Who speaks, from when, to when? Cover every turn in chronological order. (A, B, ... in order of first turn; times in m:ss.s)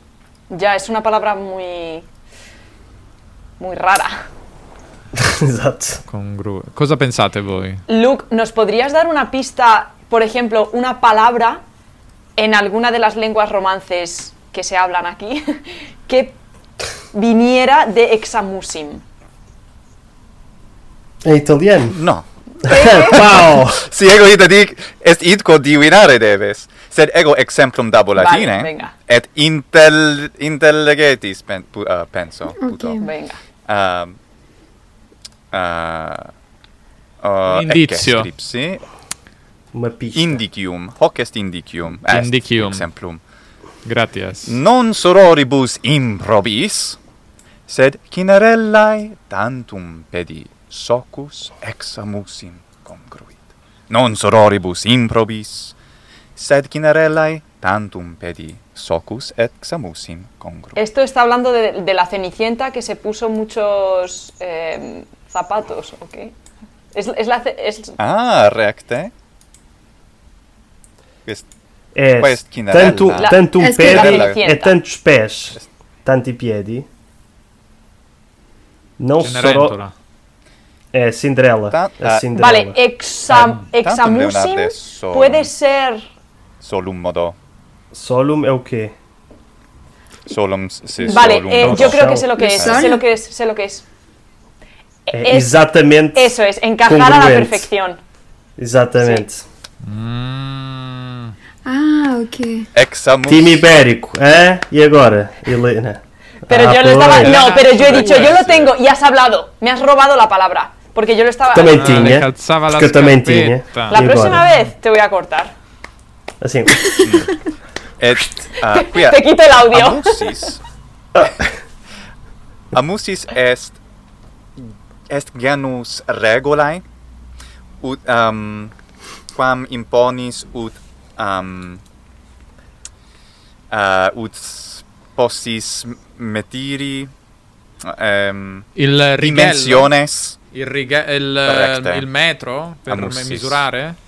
0:00.5-0:02.1 A
0:03.6-0:04.2 A
0:05.2-0:06.0 B
0:06.1-0:07.8 C
0:07.9-0:11.6 A
0:12.4-0:16.4 A
0:17.1-0:19.0 A
0:21.2-0:22.0 B
0:21.9-0:33.0 D
0:22.6-0:23.4 A
0:22.6-0:23.8 B
0:28.1-0:28.9 A
0:32.6-0:33.1 E
0:33.0-0:33.4 A
0:33.7-0:34.2 D
0:35.5-0:36.3 D
0:37.2-0:38.8 D
0:37.5-0:38.3 C
0:39.7-0:40.4 B
0:40.1-0:43.2 D
0:42.1-0:42.8 C
0:43.8-0:44.6 C
0:44.5-0:47.0 D
0:47.7-0:55.8 D
0:56.4-1:00.8 D
1:00.8-1:06.3 A
1:06.9-1:08.0 A
1:08.0-1:09.1 D
1:11.9-1:16.9 B
1:12.2-1:14.4 D
1:13.1-1:14.8 A
1:13.6-1:14.2 E
1:19.0-1:19.8 B
1:19.2-1:19.9 C
1:20.9-1:22.8 B
1:21.7-1:22.3 D
1:22.3-1:26.0 A
1:23.3-1:25.5 D
1:26.6-1:27.4 D
1:27.9-1:28.9 B
1:30.3-1:32.8 D
1:31.0-1:33.8 A
1:31.6-1:32.3 B
1:32.4-1:33.0 E
1:35.1-1:35.6 A
1:35.1-1:37.7 B
1:36.1-1:38.0 A
1:38.6-1:39.4 B
1:39.0-1:39.2 A
1:39.8-1:41.3 C
1:41.6-1:42.7 E
1:42.7-1:43.6 D
1:43.2-1:47.4 B
1:46.5-1:52.2 A
1:47.1-1:48.4 C
1:47.5-1:48.7 D
1:51.5-1:54.4 B
1:51.7-1:54.0 C
1:53.9-1:55.5 A
1:56.4-1:57.1 B
1:57.0-1:57.4 D
1:58.0-2:00.6 D
1:58.6-2:00.5 A
2:02.7-2:03.8 D
2:04.6-2:06.8 D
2:07.8-2:08.7 D
2:09.3-2:11.8 D
2:13.7-2:17.1 D
2:17.8-2:18.7 D
2:18.8-2:19.9 C
2:19.2-2:20.4 D
2:20.5-2:24.0 C
2:21.4-2:22.0 D
2:22.9-2:23.6 D